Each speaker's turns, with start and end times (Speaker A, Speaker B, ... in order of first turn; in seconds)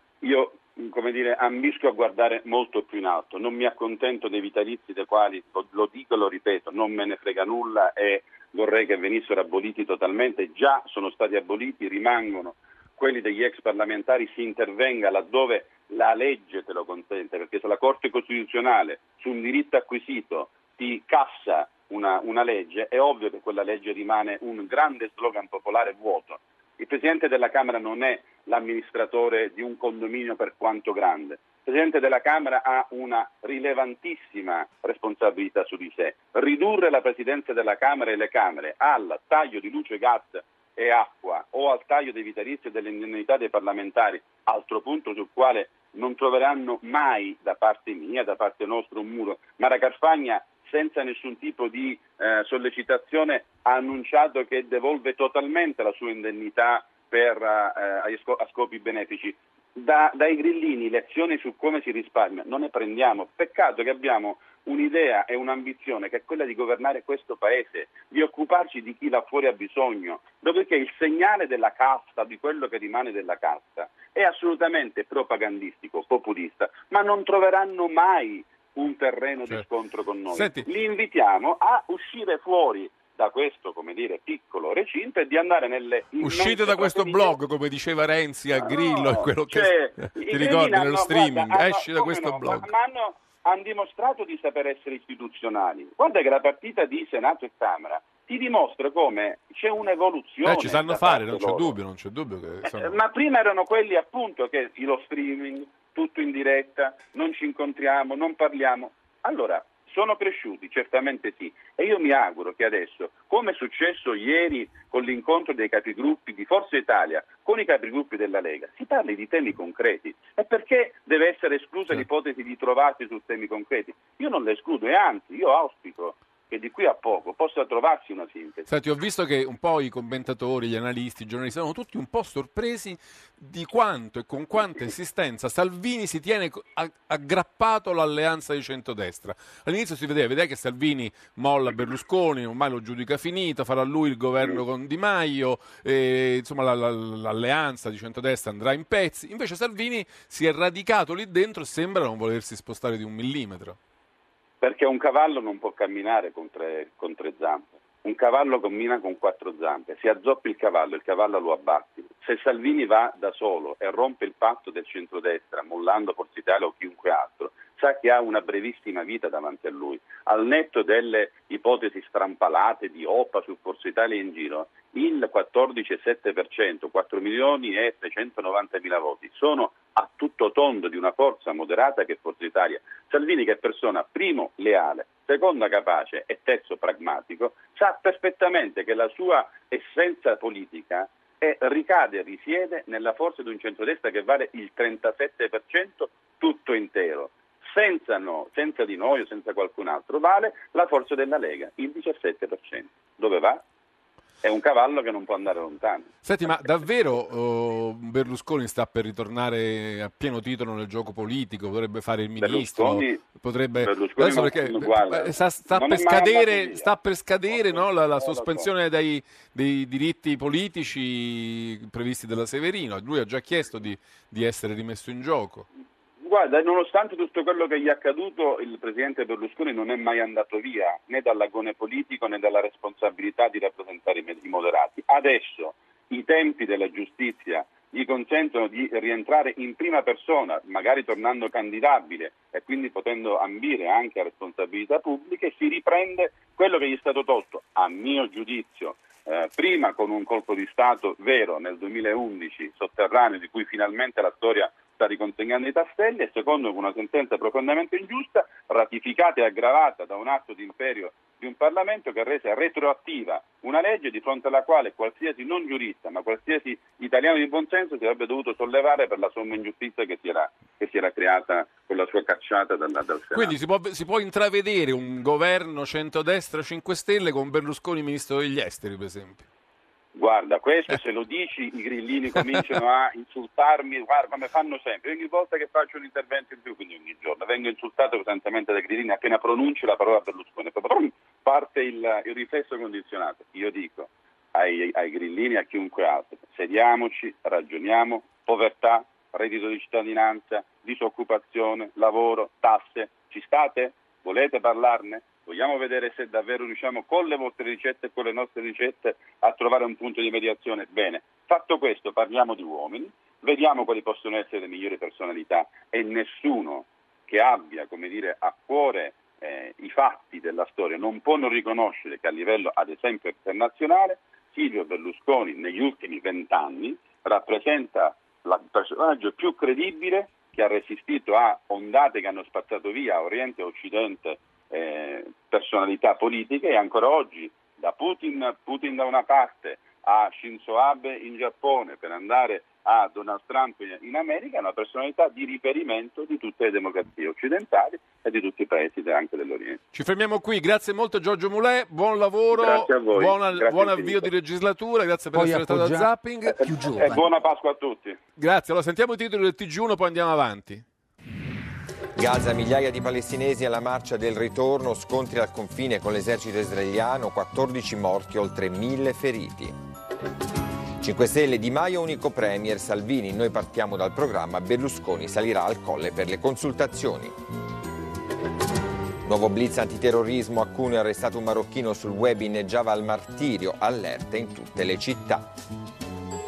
Speaker A: 0.2-87.3, 88.5-101.8, 102.6-128.7, 154.6-203.6, 204.4-206.1, 212.4-213.2, 213.8-216.9, 217.5-218.7, 226.2-273.5, 280.1-349.8, 352.5-354.2, 356.8-358.2
Speaker B: 80.3-80.7, 86.2-92.7, 100.4-103.0, 128.7-153.8, 206.2-225.7, 273.3-279.4, 349.9-357.2, 358.4-360.9
Speaker C: 362.1-369.8, 371.0-377.4, 379.2-385.5